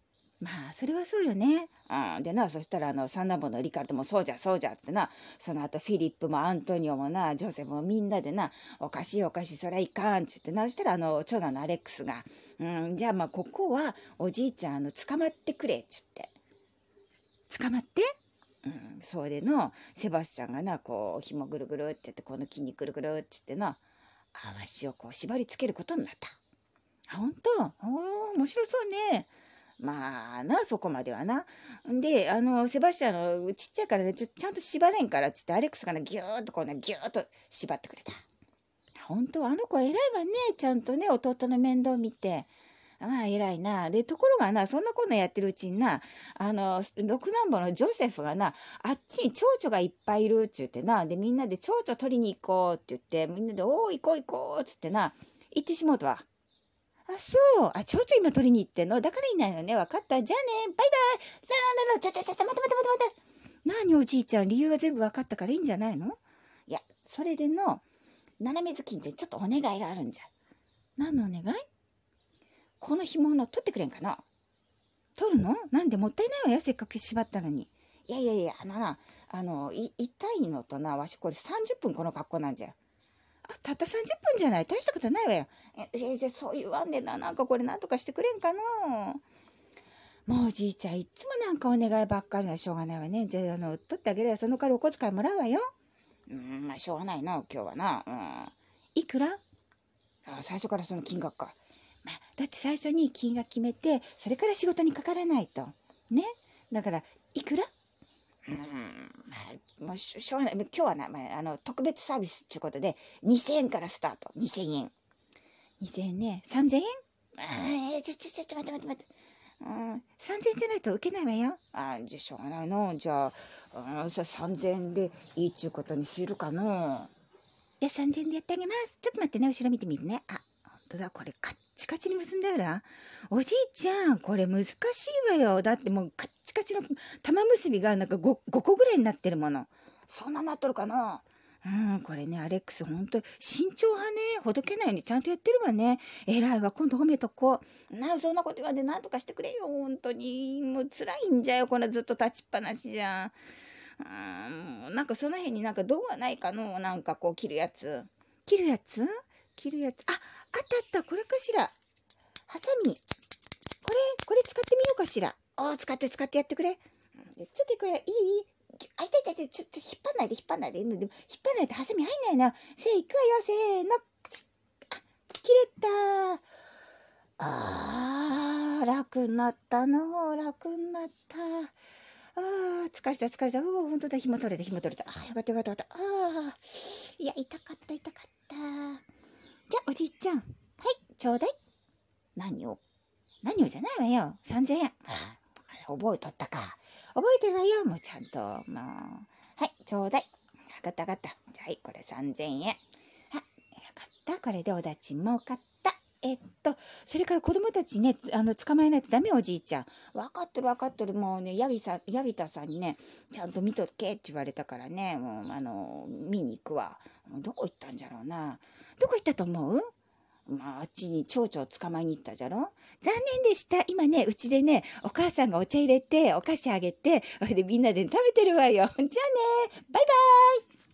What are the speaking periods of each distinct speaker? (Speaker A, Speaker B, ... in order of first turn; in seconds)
Speaker A: 0.4-16.3, 17.5-18.0, 18.6-23.8, 24.3-26.3, 27.1-38.2, 39.0-56.2, 57.1-67.8, 68.4-70.3, 71.0-71.6, 72.8-74.2, 75.2-82.8, 83.5-89.2, 90.3-95.7, 96.3-99.4, 100.2-107.7, 108.5-114.9, 115.8-127.1, 127.8-153.4, 154.0-161.7, 162.5-163.0, 163.8-176.4, 177.4-181.7, 182.4-189.1, 189.7-191.5, 192.4-192.8, 193.4-202.8, 203.3-219.9, 220.5-230.7